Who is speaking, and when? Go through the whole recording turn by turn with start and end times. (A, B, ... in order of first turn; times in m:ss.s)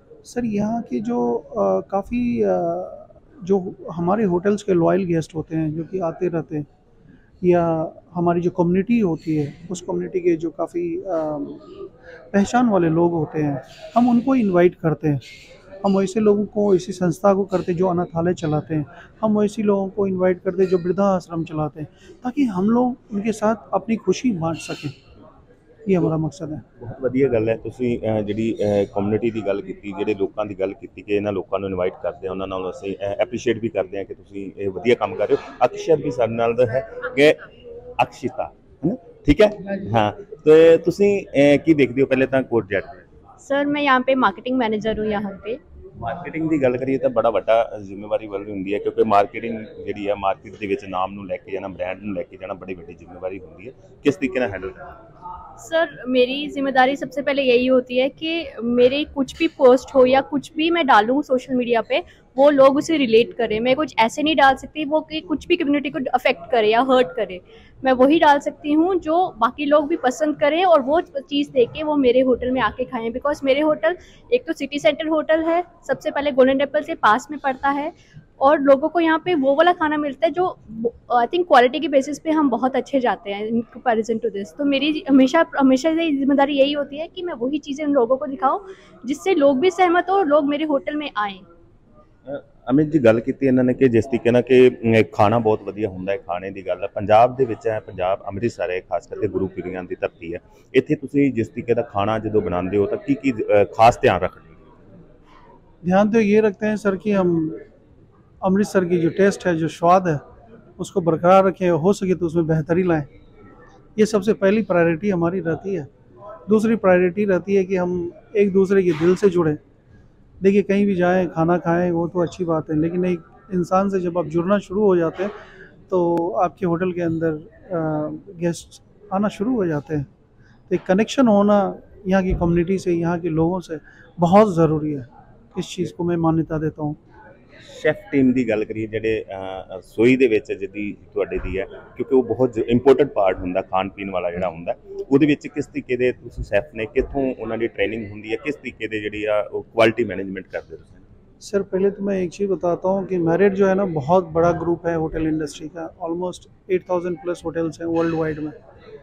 0:00.2-0:06.7 A
0:07.4-0:11.7 A
0:12.3-0:15.2 A
0:15.8-0:24.9 A
0:25.8-0:26.6 A
0:26.8-0:37.4 B
0:38.0-0:43.0 B
0:43.5-0:45.6 C
0:46.0-0:55.0 B
0:55.6-1:31.4 C
1:32.2-1:44.7 B
1:45.8-1:47.6 A
1:48.4-1:50.2 A
1:50.8-1:53.1 A
1:54.0-1:55.9 A
1:56.5-1:59.6 A
2:00.4-2:05.3 A
2:05.9-2:10.1 A
2:10.7-2:17.0 A
2:17.6-2:31.0 B
2:31.4-2:38.6 A